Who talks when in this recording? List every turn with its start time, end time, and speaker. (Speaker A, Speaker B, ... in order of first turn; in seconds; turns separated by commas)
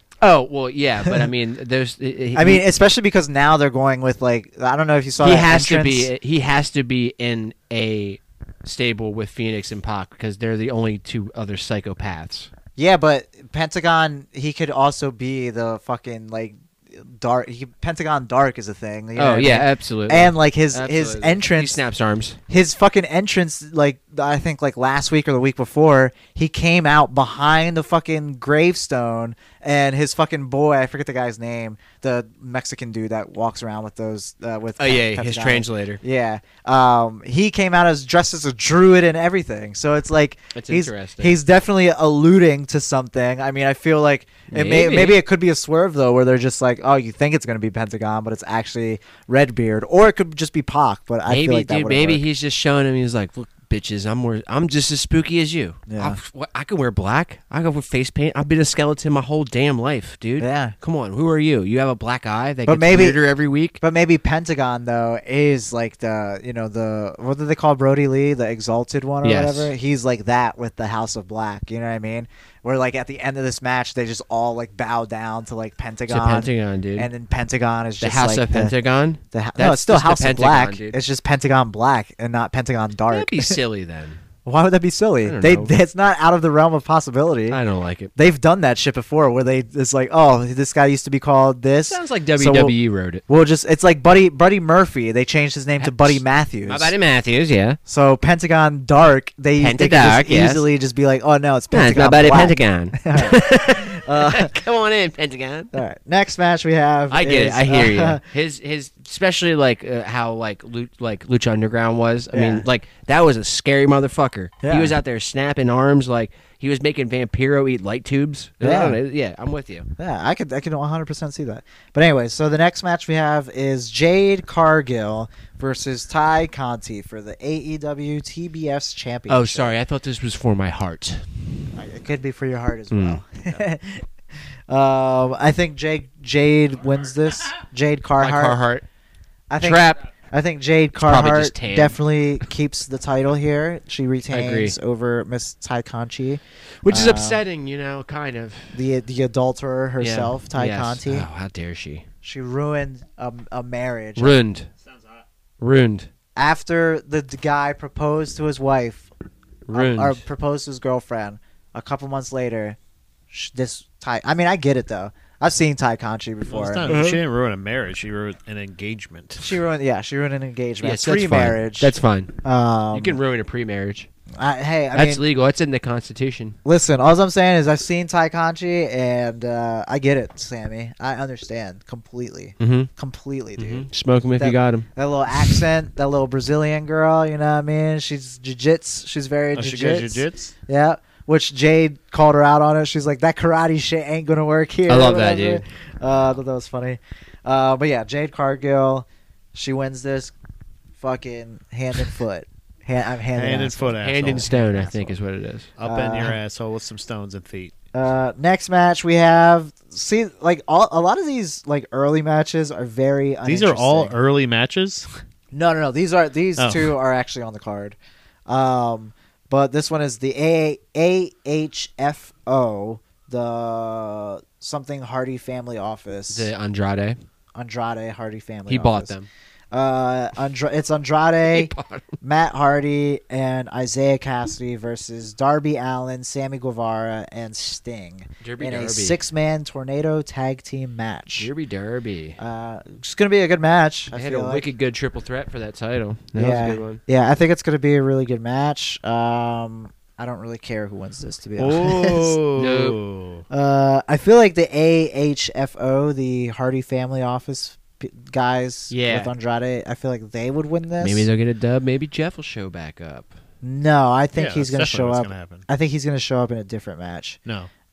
Speaker A: 0.2-2.6, Speaker B: 2.3-6.1, Speaker A: 5.2-12.5, Speaker B: 12.8-21.8, Speaker A: 19.1-22.4, Speaker B: 22.5-52.2, Speaker A: 34.8-36.0, Speaker A: 40.5-41.4, Speaker A: 44.5-45.2, Speaker A: 51.3-63.8, Speaker B: 55.9-56.2, Speaker B: 60.4-60.7, Speaker B: 62.6-63.2, Speaker B: 63.8-78.7, Speaker A: 69.2-69.7, Speaker A: 76.1-77.1, Speaker A: 78.0-81.0, Speaker B: 79.3-83.6, Speaker A: 83.1-84.2, Speaker B: 84.4-87.6, Speaker A: 85.2-85.7, Speaker A: 87.5-88.1, Speaker B: 88.2-92.7, Speaker A: 91.9-93.2, Speaker B: 93.3-96.9, Speaker A: 95.8-97.8, Speaker B: 97.8-104.5, Speaker A: 99.6-100.6, Speaker A: 101.7-105.8, Speaker B: 105.7-108.2, Speaker A: 107.1-119.9, Speaker B: 112.3-112.7, Speaker B: 114.6-115.0, Speaker B: 118.6-119.0, Speaker B: 120.0-129.7, Speaker A: 129.3-131.5, Speaker B: 131.7-134.1, Speaker A: 132.9-133.2, Speaker B: 134.7-138.6, Speaker A: 138.2-138.8, Speaker B: 139.5-147.4, Speaker A: 139.6-140.0, Speaker A: 141.0-142.0, Speaker A: 144.3-144.8, Speaker A: 146.8-148.8, Speaker B: 148.7-151.3, Speaker A: 150.0-152.1, Speaker B: 152.2-154.4, Speaker A: 154.2-154.7, Speaker A: 155.6-156.1, Speaker B: 156.3-159.1, Speaker A: 159.7-160.2, Speaker B: 159.7-162.8, Speaker B: 163.3-167.0, Speaker C: 166.4-169.6, Speaker A: 166.8-167.2, Speaker B: 169.4-173.2, Speaker A: 170.8-172.4, Speaker A: 172.9-174.1, Speaker B: 174.3-175.2, Speaker A: 174.9-176.6, Speaker B: 176.6-183.9, Speaker A: 182.6-182.9, Speaker A: 183.6-185.6, Speaker B: 184.4-200.3, Speaker C: 189.5-190.5, Speaker A: 194.9-196.3, Speaker B: 201.0-205.1, Speaker C: 203.3-204.9, Speaker A: 204.0-205.7, Speaker C: 205.8-207.7, Speaker B: 205.8-206.3, Speaker B: 207.9-214.1, Speaker C: 213.4-215.1, Speaker B: 215.5-226.5, Speaker C: 216.6-216.9, Speaker A: 226.3-227.2, Speaker B: 227.5-229.1, Speaker A: 228.7-229.3, Speaker B: 229.7-241.5, Speaker A: 231.4-232.2, Speaker A: 238.4-239.2, Speaker A: 241.4-242.4, Speaker B: 242.4-244.7, Speaker A: 244.1-247.0, Speaker B: 246.3-252.4, Speaker C: 251.6-253.4, Speaker A: 252.6-253.0, Speaker B: 253.5-261.2, Speaker A: 258.9-259.3, Speaker A: 261.0-263.3, Speaker B: 263.6-267.4, Speaker C: 264.4-265.6